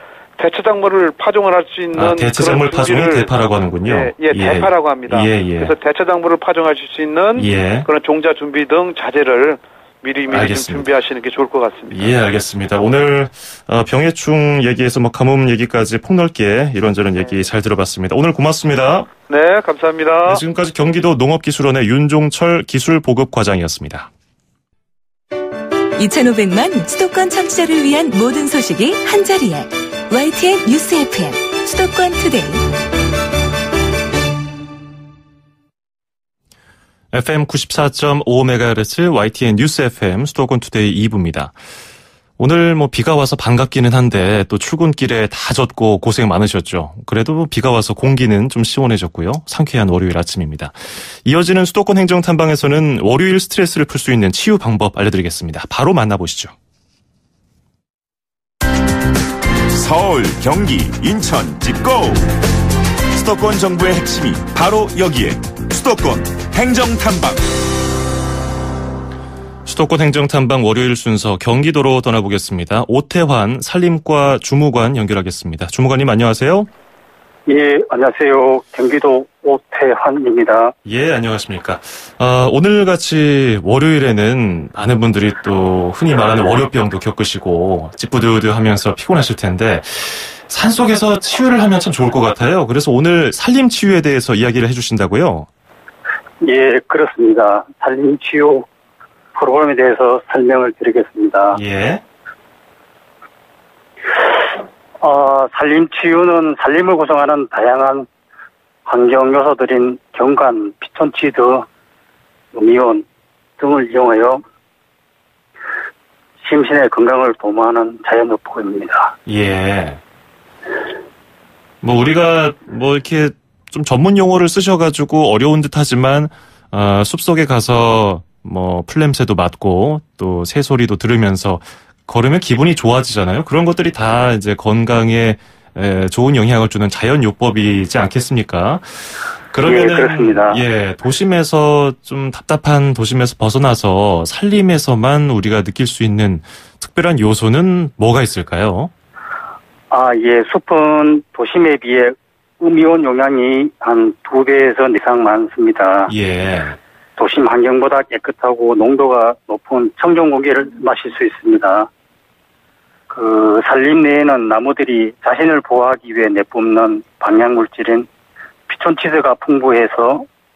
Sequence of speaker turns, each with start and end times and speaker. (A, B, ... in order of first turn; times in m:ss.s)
0:00.4-0:03.3 A
0:01.9-0:05.8 B
0:03.8-0:12.1 A
0:07.4-0:07.9 B
0:10.3-0:10.9 B
0:11.9-0:19.1 B
0:19.3-0:20.4 A
0:20.3-0:24.1 B
0:26.0-0:32.6 C
0:37.1-0:41.6 B
0:42.4-0:56.5 B
0:59.7-1:02.3 D
1:03.1-1:07.5 D
1:09.6-1:16.7 B
1:17.5-1:20.8 E
1:20.8-1:35.5 B
1:36.4-1:38.7 E
1:39.4-1:41.6 E
1:41.5-1:42.0 B
1:45.0-1:48.1 E
1:48.9-1:51.6 E
1:52.5-1:53.0 E
1:53.6-1:54.4 E
1:56.4-1:59.1 E
1:59.3-2:00.0 B
2:01.8-2:28.9 B
2:19.6-2:20.6 E
2:29.9-2:36.1 E
2:36.1-2:36.8 B
2:37.2-2:41.9 E
2:43.1-2:48.1 E
2:48.7-2:50.3 E